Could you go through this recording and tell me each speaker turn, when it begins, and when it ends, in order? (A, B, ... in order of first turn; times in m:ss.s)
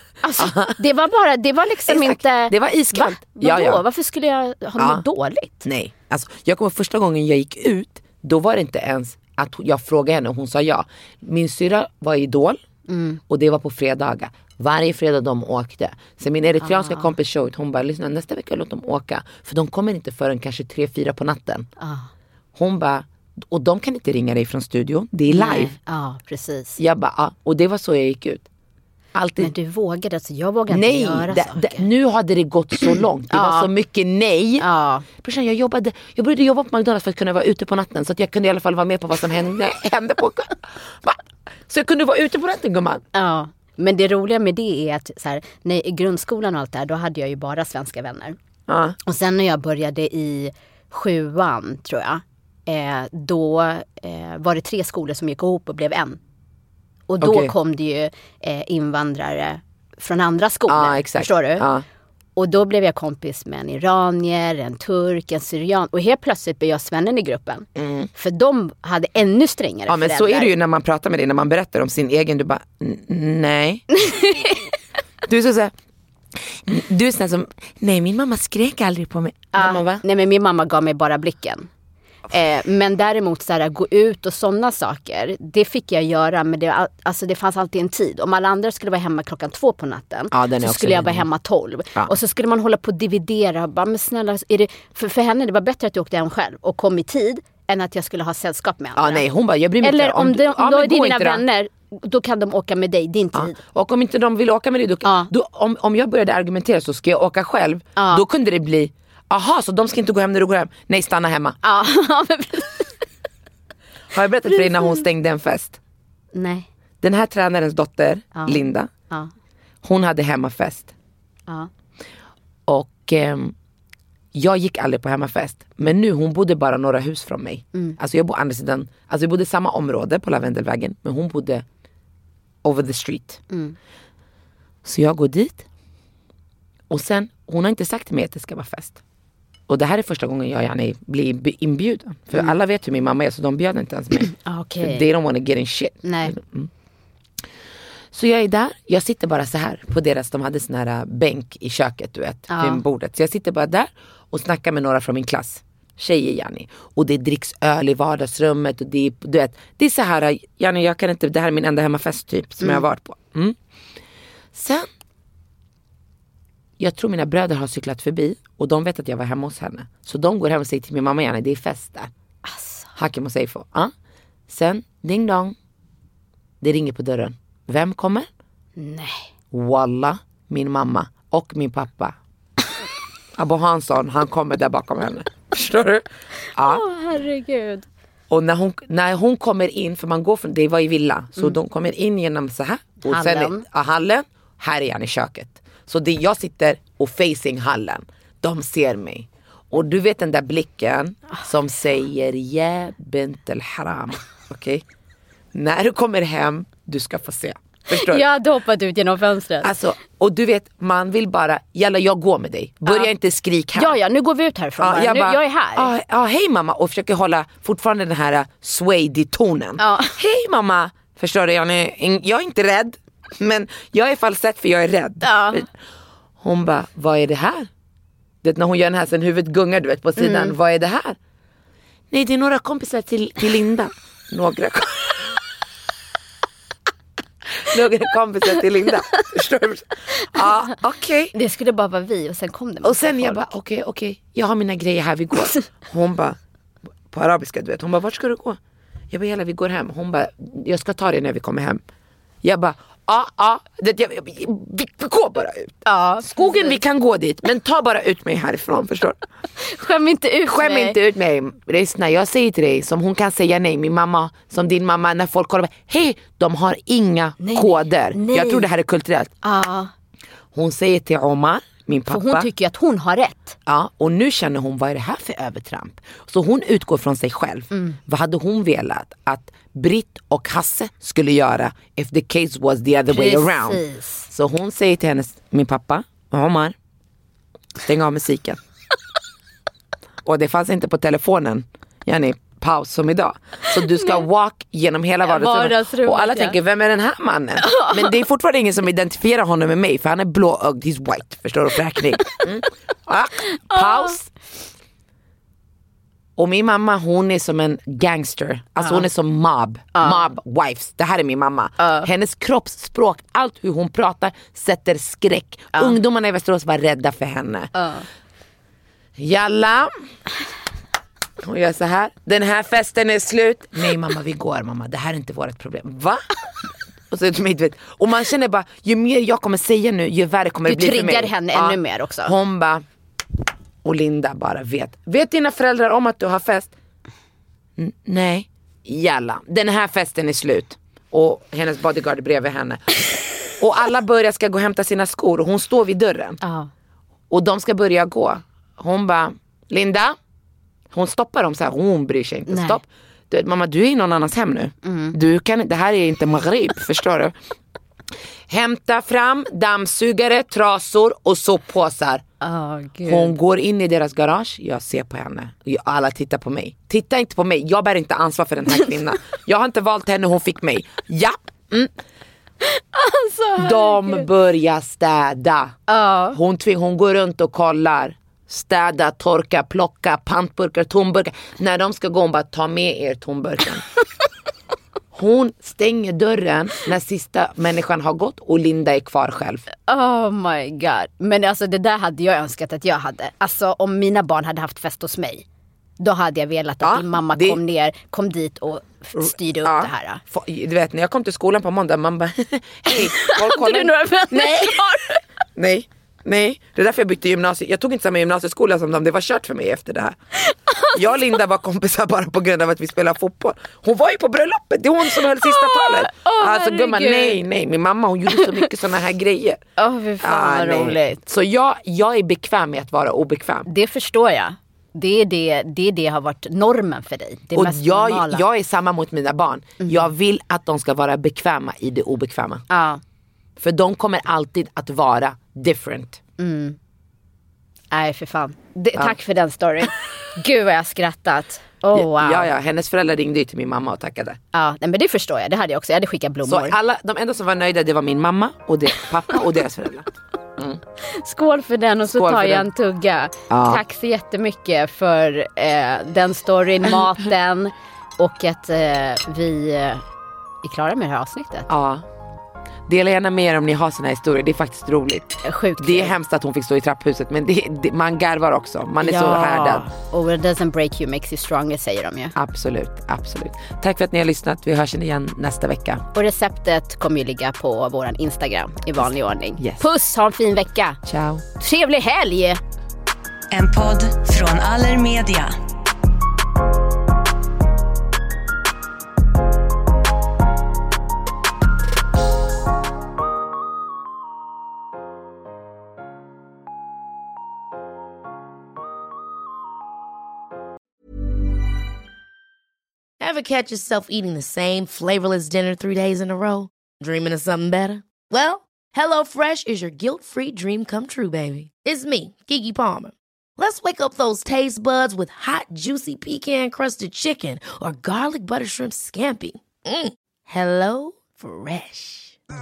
0:00.2-0:05.7 A
0:00.4-0:00.8 B
0:01.9-0:03.8 B
0:04.8-0:05.0 B
0:05.6-0:12.6 B
0:12.9-0:13.2 A
0:13.3-0:21.7 B
0:16.6-0:17.1 A
0:21.8-0:22.1 A
0:22.6-0:25.7 B
0:25.3-0:26.8 A
0:26.8-0:28.4 B
0:29.1-0:29.5 B
0:29.4-0:31.8 A
0:30.7-0:34.6 B
0:32.8-0:33.7 A
0:34.6-0:35.0 A
0:35.2-0:43.0 B
0:43.1-0:48.4 A
0:48.7-0:49.0 B
0:49.0-0:56.2 A
0:57.1-1:01.6 A
0:57.2-0:57.5 B
1:00.7-1:01.8 B
1:02.4-1:10.5 A
1:07.8-1:08.1 B
1:09.9-1:13.9 B
1:13.9-1:14.7 A
1:15.3-1:15.7 B
1:16.4-1:20.0 B
1:19.5-1:21.7 A
1:22.3-1:39.2 A
1:30.3-1:31.2 B
1:39.0-1:41.4 B
1:39.8-1:43.6 A
1:43.3-1:51.6 B
1:45.0-1:45.3 A
1:48.0-1:48.2 A
1:51.6-1:53.0 A
1:54.1-1:55.8 B
1:54.5-1:55.0 A
1:56.3-1:56.7 A
1:57.0-1:58.9 B
1:58.3-1:59.3 A
1:59.8-2:00.9 B
2:02.7-2:03.5 B
2:04.3-2:11.6 B
2:12.6-2:13.4 B
2:13.5-2:13.8 A
2:14.8-2:15.6 B
2:16.9-2:19.0 B
2:19.7-2:26.7 B
2:24.3-2:25.0 A
2:26.0-2:26.3 A
2:28.1-2:43.6 B
2:32.5-2:32.8 A
2:44.5-2:44.9 B
2:46.8-2:52.1 B
2:52.4-2:53.0 A
2:53.0-2:53.9 B
2:54.5-2:55.5 B
2:56.6-2:58.3 B
2:58.8-2:59.3 A
2:59.5-3:02.1 B
3:03.4-3:06.8 B
3:06.5-3:07.9 A
3:08.3-3:24.8 B
3:13.0-3:13.6 A
3:25.5-3:28.2 B
3:27.9-3:29.7 A
3:29.6-3:34.0 B
3:33.7-3:35.9 A
3:34.8-3:45.7 B
3:39.8-3:40.2 A
3:45.2-3:45.6 A
3:46.4-3:47.7 B
3:48.4-3:51.2 B
3:50.2-3:50.5 A
3:52.1-3:55.4 B
3:57.5-4:01.3 B
4:01.3-4:03.5 A
4:02.8-4:06.4 B
4:07.1-4:08.6 B
4:09.1-4:11.8 B
4:12.4-4:19.2 B
4:15.9-4:16.8 A
4:19.6-4:21.0 A
4:20.5-4:29.3 B
4:27.4-4:28.7 A
4:29.4-4:29.9 A
4:30.5-4:32.5 B
4:32.1-4:33.5 A
4:33.7-4:46.7 B
4:43.1-4:44.3 A
4:47.9-4:48.6 B
4:50.2-5:04.3 B
4:53.9-4:54.2 A
4:55.2-4:56.6 A
4:57.6-4:58.1 A
5:03.5-5:04.2 A
5:06.4-5:17.7 B
5:09.9-5:10.3 A
5:11.8-5:12.1 A
5:17.7-5:18.0 A
5:19.2-5:19.9 B
5:21.4-5:26.2 B
5:27.1-5:32.8 B
5:30.7-5:32.3 A
5:33.8-5:36.7 B
5:37.8-5:43.0 B
5:43.6-5:46.4 B
5:46.4-5:46.7 A
5:47.3-5:50.2 B
5:50.9-5:57.3 B
5:52.5-5:52.8 A
5:54.8-5:55.1 A
5:58.5-6:02.2 B
6:02.4-6:03.3 A
6:03.0-6:11.9 B
6:12.6-6:14.3 A
6:13.6-6:15.8 B
6:15.9-6:16.4 A
6:16.3-6:23.9 B
6:25.1-6:29.7 B
6:29.8-6:35.4 A
6:36.0-6:40.2 A
6:36.8-6:37.6 B
6:39.2-6:44.8 B
6:42.9-6:45.2 A
6:45.6-6:50.2 B
6:50.5-6:51.0 A
6:50.9-6:59.6 B
6:55.1-6:57.4 A
6:58.3-6:58.6 A
6:59.8-7:01.2 A
7:00.2-7:03.7 B
7:03.6-7:08.4 A
7:07.5-7:12.6 B
7:12.7-7:13.0 A
7:13.6-7:16.2 B
7:16.4-7:16.8 A
7:17.9-7:22.5 A
7:21.9-7:24.4 B
7:24.5-7:26.8 A
7:26.4-7:30.8 B
7:31.0-7:40.0 A
7:32.1-7:32.6 B
7:33.5-7:33.8 B
7:40.6-7:41.7 A
7:41.7-7:42.0 B
7:42.9-7:49.8 B
7:45.4-7:46.1 A
7:49.0-7:52.3 A
7:52.4-7:56.0 B
7:56.1-8:01.0 A
8:01.0-8:01.4 B
8:01.6-8:02.6 A
8:03.5-8:05.5 C
8:23.2-8:42.4 D